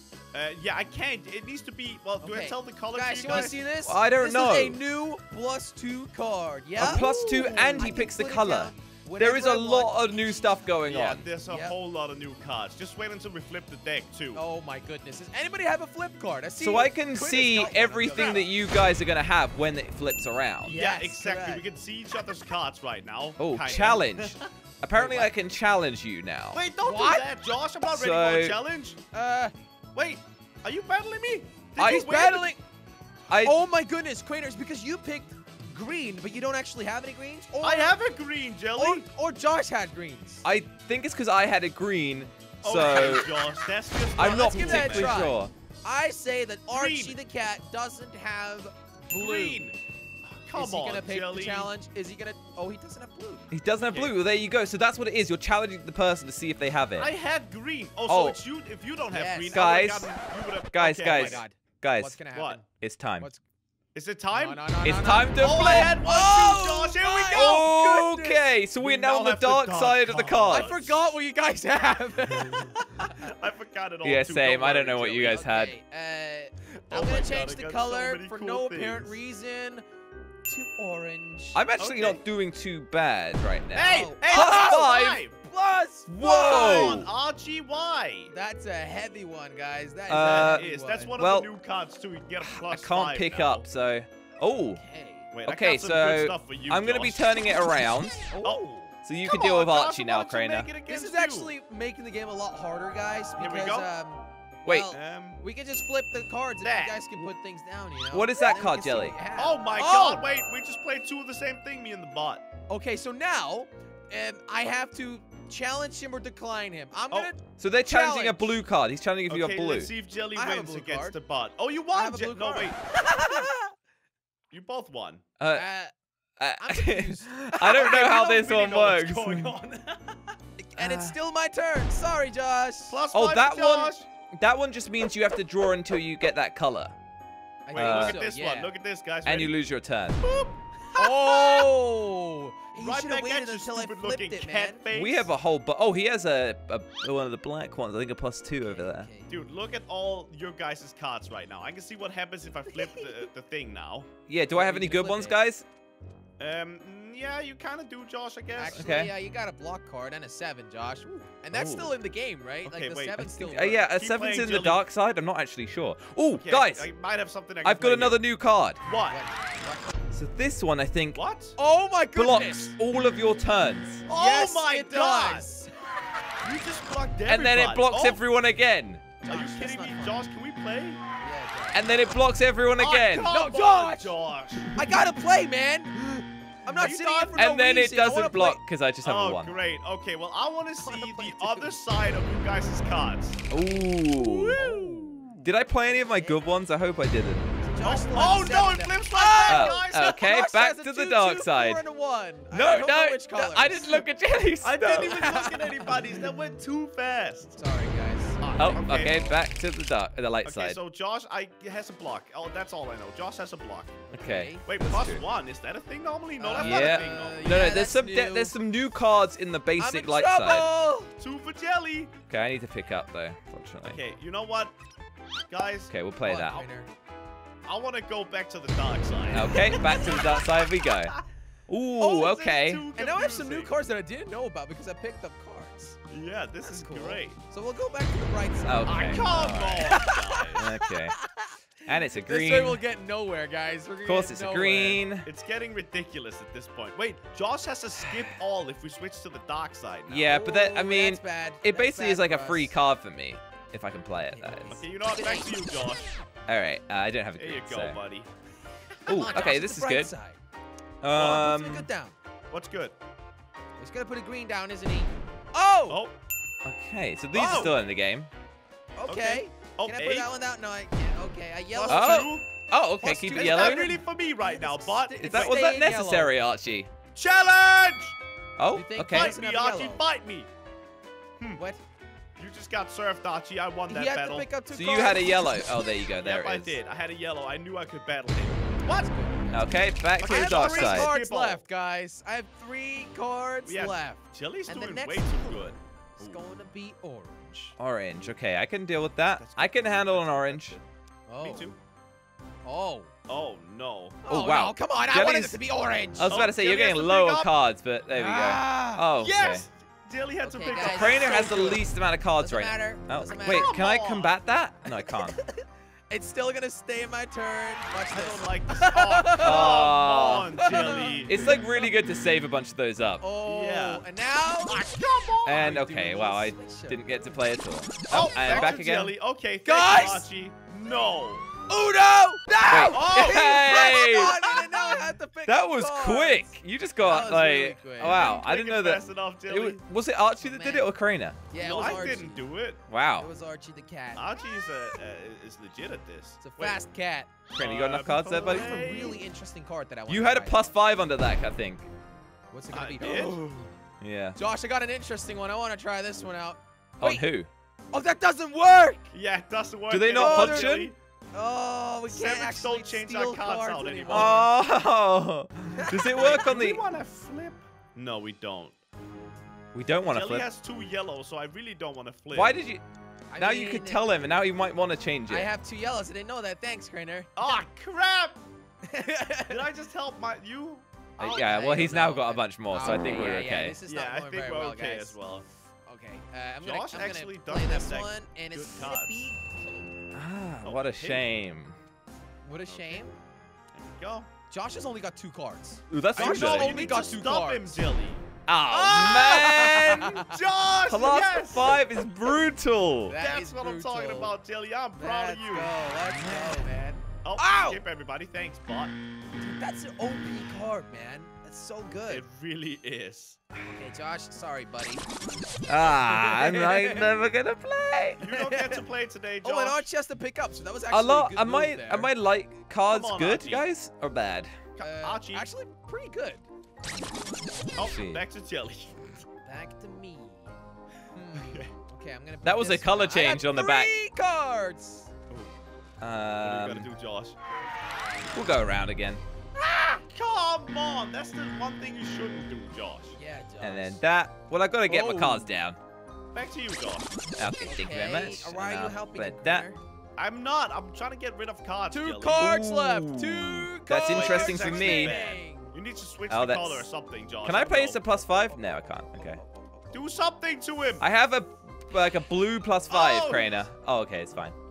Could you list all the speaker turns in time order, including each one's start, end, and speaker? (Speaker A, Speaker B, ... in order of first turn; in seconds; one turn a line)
Speaker A: 0.3-3.6
Speaker B: 2.2-7.2
Speaker C: 3.8-4.8
Speaker C: 6.8-11.3
Speaker A: 6.8-8.0
Speaker B: 7.8-10.6
Speaker A: 10.9-14.4
Speaker B: 11.5-11.8
Speaker B: 14.3-18.4
Speaker C: 16.6-20.8
Speaker A: 17.9-18.5
Speaker B: 20.6-21.7
Speaker A: 20.7-24.5
Speaker C: 23.4-26.6
Speaker B: 24.9-25.3
Speaker A: 26.5-29.0
Speaker B: 26.8-27.3
Speaker C: 27.9-28.6
Speaker B: 29.1-29.5
Speaker A: 29.9-32.5
Speaker B: 31.8-32.6
Speaker C: 31.8-32.4
Speaker C: 33.3-33.5
Speaker B: 33.4-38.0
Speaker A: 37.6-39.1
Speaker B: 38.8-40.5
Speaker C: 40.5-43.3
Speaker A: 42.6-45.3
Speaker C: 44.2-45.5
Speaker B: 44.2-49.6
Speaker A: 46.7-47.2
Speaker A: 49.1-51.7
Speaker B: 50.6-53.5
Speaker C: 53.5-57.1
Speaker A: 53.9-54.2
Speaker A: 57.0-61.4
Speaker C: 58.1-58.4
Speaker B: 59.1-59.6
Speaker C: 59.5-60.1
Speaker C: 60.7-62.2
Speaker B: 61.0-62.7
Speaker A: 62.3-62.6
Speaker C: 62.7-63.3
Speaker A: 63.9-64.7
Speaker B: 64.3-68.4
Speaker C: 64.8-66.0
Speaker A: 65.4-71.0
Speaker C: 67.3-70.8
Speaker B: 70.5-73.3
Speaker A: 73.0-75.4
Speaker C: 74.0-75.7
Speaker B: 75.2-79.8
Speaker A: 76.9-79.2
Speaker B: 80.5-81.6
Speaker C: 81.5-85.2
Speaker A: 81.8-82.2
Speaker A: 83.7-85.4
Speaker B: 83.8-87.0
Speaker C: 86.1-87.1
Speaker A: 86.2-88.3
Speaker B: 88.3-91.2
Speaker C: 90.1-90.7
Speaker A: 90.1-93.7
Speaker C: 91.2-91.5
Speaker C: 92.4-94.8
Speaker B: 94.8-95.3
Speaker A: 95.3-97.3
Speaker C: 95.5-98.3
Speaker B: 98.3-98.9
Speaker A: 98.4-101.5
Speaker C: 99.0-100.7
Speaker B: 100.9-110.2
Speaker A: 103.4-103.9
Speaker C: 104.7-104.9
Speaker A: 104.9-105.4
Speaker A: 106.6-107.0
Speaker C: 108.1-109.2
Speaker A: 109.4-112.5
Speaker B: 112.7-118.6
Speaker C: 117.6-119.9
Speaker A: 119.3-122.9
Speaker B: 120.3-121.2
Speaker B: 121.9-123.7
Speaker A: 124.5-125.2
Speaker C: 125.4-125.7
Speaker B: 125.5-125.9
Speaker C: 126.4-129.6
Speaker B: 126.6-128.2
Speaker A: 127.7-130.3
Speaker B: 130.6-133.0
Speaker C: 130.8-131.2
Speaker A: 132.9-134.1
Speaker C: 133.1-137.0
Speaker B: 137.7-138.7
Speaker A: 137.7-139.5
Speaker C: 137.7-138.2
Speaker C: 139.2-140.2
Speaker A: 140.2-141.7
Speaker B: 141.0-144.8
Speaker A: 142.8-145.3
Speaker C: 144.9-149.1
Speaker B: 148.6-149.5
Speaker A: 149.3-154.1
Speaker C: 154.3-155.7
Speaker B: 154.5-155.4
Speaker A: 156.4-158.8
Speaker B: 158.6-163.8
Speaker C: 158.7-159.1
Speaker C: 161.5-161.9
Speaker A: 162.7-164.8
Speaker C: 163.3-166.9
Speaker A: 166.3-168.2
Speaker C: 167.6-168.8
Speaker A: 168.8-169.2
Speaker B: 169.1-170.0
Speaker C: 170.1-171.2
Speaker A: 171.2-171.6
Speaker B: 171.6-172.8
Speaker C: 172.2-174.1
Speaker A: 174.1-175.5
Speaker B: 174.1-175.9
Speaker A: 176.4-178.2
Speaker C: 177.3-179.1
Speaker B: 179.2-180.3
Speaker A: 179.3-181.0
Speaker B: 181.2-181.9
Speaker C: 181.7-183.3
Speaker A: 182.8-184.7
Speaker B: 183.2-184.2
Speaker B: 184.8-186.0
Speaker B: 186.7-188.6
Speaker A: 186.8-187.4
Speaker C: 187.4-189.6
Speaker A: 189.0-193.5
Speaker B: 190.8-191.8
Speaker C: 193.5-194.6
Speaker B: 193.5-194.0
Speaker A: 194.2-195.5
Speaker B: 194.6-195.2
Speaker C: 195.4-197.5
Speaker B: 195.8-196.4
Speaker B: 197.6-204.1
Speaker A: 197.8-200.2
Speaker C: 199.5-201.8
Speaker C: 202.5-205.4
Speaker A: 204.6-207.6
Speaker B: 205.4-206.0
Speaker B: 207.6-208.4
Speaker A: 208.4-209.4
Speaker C: 208.6-210.8
Speaker A: 210.4-214.1
Speaker B: 214.1-214.6
Speaker C: 214.1-215.2
Speaker A: 214.7-217.5
Speaker B: 216.4-218.5
Speaker C: 216.6-220.7
Speaker B: 219.8-221.1
Speaker A: 221.2-222.1
Speaker C: 222.3-224.0
Speaker A: 223.8-224.8
Speaker A: 225.5-225.9
Speaker C: 225.9-226.6
Speaker B: 226.2-226.9
Speaker A: 227.7-229.7
Speaker C: 229.3-232.9
Speaker B: 229.5-230.0
Speaker A: 232.0-233.7
Speaker B: 232.0-236.0
Speaker A: 236.1-237.4
Speaker B: 236.7-239.3
Speaker C: 238.7-241.2
Speaker A: 238.9-240.7
Speaker B: 239.8-241.6
Speaker C: 241.8-242.8
Speaker B: 242.2-245.0
Speaker C: 244.1-245.3
Speaker A: 245.2-250.3
Speaker C: 250.1-254.8
Speaker B: 250.3-252.7
Speaker B: 254.3-255.6
Speaker A: 254.7-256.1
Speaker C: 256.5-258.0
Speaker A: 257.4-258.3
Speaker B: 259.1-260.4
Speaker C: 259.1-260.1
Speaker C: 261.0-261.9
Speaker B: 261.1-262.2
Speaker A: 261.1-261.5
Speaker A: 262.5-263.0
Speaker B: 263.8-266.0
Speaker A: 265.9-266.1
Speaker C: 266.6-268.3
Speaker A: 267.3-267.8
Speaker B: 269.0-272.3
Speaker A: 269.1-270.3
Speaker A: 271.7-272.5
Speaker C: 271.9-273.9
Speaker B: 273.0-276.4
Speaker A: 273.3-275.7
Speaker C: 275.2-276.9
Speaker A: 277.1-278.2
Speaker C: 278.6-279.4
Speaker B: 278.7-280.0
Speaker A: 279.0-280.5
Speaker B: 281.6-281.8
Speaker A: 282.4-284.5
Speaker B: 283.9-285.7
Speaker C: 284.7-286.8
Speaker A: 286.2-289.1
Speaker B: 288.9-297.8
Speaker C: 289.5-291.1
Speaker A: 290.2-291.6
Speaker A: 293.6-296.4
Speaker C: 297.8-300.8
Speaker A: 299.4-300.9
Speaker B: 301.3-301.7
Speaker A: 301.4-301.8
Speaker B: 302.6-303.1
Speaker A: 303.3-304.2
Speaker B: 304.2-306.4
Speaker C: 304.3-305.6
Speaker C: 306.2-309.7
Speaker A: 306.3-307.5
Speaker B: 308.1-309.1
Speaker A: 309.2-311.8
Speaker B: 310.4-311.9
Speaker C: 310.7-315.4
Speaker B: 312.4-313.7
Speaker A: 313.4-314.3
Speaker B: 314.9-319.9
Speaker A: 318.1-321.7
Speaker C: 319.4-320.7
Speaker B: 320.6-321.9
Speaker C: 321.3-323.2
Speaker B: 323.2-324.8
Speaker A: 323.5-324.1
Speaker A: 324.6-325.9
Speaker C: 325.4-329.1
Speaker B: 325.5-327.5
Speaker A: 328.1-331.5
Speaker B: 329.6-330.3
Speaker B: 331.7-338.2
Speaker C: 332.7-334.9
Speaker A: 332.9-334.2
Speaker C: 335.5-341.4
Speaker A: 338.0-339.8
Speaker B: 340.4-340.9
Speaker B: 341.5-342.5
Speaker A: 341.6-342.8
Speaker C: 342.9-343.3
Speaker B: 343.2-344.3
Speaker A: 344.2-346.8
Speaker B: 346.4-347.4
Speaker C: 347.5-348.8
Speaker A: 347.6-349.2
Speaker B: 348.4-350.7
Speaker C: 350.1-351.9
Speaker B: 352.5-353.5
Speaker A: 352.7-353.7
Speaker C: 354.0-354.4
Speaker B: 354.4-357.2
Speaker C: 357.0-357.5
Speaker B: 357.9-359.1
Speaker A: 359.1-361.0
Speaker C: 359.9-360.9
Speaker B: 360.1-360.7
Speaker B: 361.3-364.5
Speaker A: 362.1-364.4
Speaker C: 364.1-366.8
Speaker B: 365.8-366.4
Speaker A: 366.1-368.8
Speaker C: 369.7-370.5
Speaker A: 370.1-372.6
Speaker C: 372.3-372.8
Speaker B: 373.3-374.4
Speaker C: 373.4-375.5
Speaker B: 375.3-377.3
Speaker A: 377.4-378.4
Speaker B: 378.9-379.6
Speaker A: 379.5-380.9
Speaker C: 381.2-383.8
Speaker B: 381.2-385.2
Speaker A: 383.9-385.5
Speaker B: 385.9-389.9
Speaker A: 386.6-389.2
Speaker C: 390.1-391.8
Speaker A: 390.6-391.3
Speaker B: 392.4-393.1
Speaker A: 392.7-393.1
Speaker A: 393.7-394.3
Speaker B: 394.5-397.9
Speaker C: 395.9-396.8
Speaker A: 396.1-401.8
Speaker C: 398.5-400.2
Speaker B: 399.0-400.4
Speaker C: 400.9-403.2
Speaker B: 403.1-404.4
Speaker A: 403.2-405.8
Speaker B: 405.0-407.8
Speaker C: 406.1-406.7
Speaker A: 407.2-409.0
Speaker B: 409.4-412.2
Speaker A: 412.1-413.4
Speaker B: 413.7-415.1
Speaker C: 415.7-418.3
Speaker B: 415.8-417.1
Speaker A: 418.2-419.9
Speaker B: 418.2-418.8
Speaker B: 419.4-422.1
Speaker C: 420.9-424.5
Speaker A: 422.9-423.7
Speaker A: 424.8-425.5
Speaker B: 424.8-426.4
Speaker A: 427.8-429.2
Speaker C: 427.8-428.2
Speaker B: 429.4-430.5
Speaker B: 431.1-435.1
Speaker A: 431.4-431.7
Speaker C: 432.4-433.9
Speaker A: 435.3-435.5
Speaker C: 436.0-436.9
Speaker A: 436.4-437.4
Speaker C: 438.3-439.2
Speaker B: 439.6-440.0
Speaker A: 440.1-443.2
Speaker B: 443.1-444.0
Speaker C: 443.6-445.8
Speaker B: 444.9-445.5
Speaker A: 446.3-447.2
Speaker C: 447.4-449.7
Speaker B: 447.6-449.8
Speaker A: 450.2-452.6
Speaker B: 451.9-455.8
Speaker C: 452.3-455.2
Speaker A: 454.1-458.0
Speaker C: 456.3-456.9
Speaker C: 457.4-459.4
Speaker B: 458.3-460.0
Speaker A: 459.9-461.1
Speaker C: 461.0-464.6
Speaker A: 462.9-463.7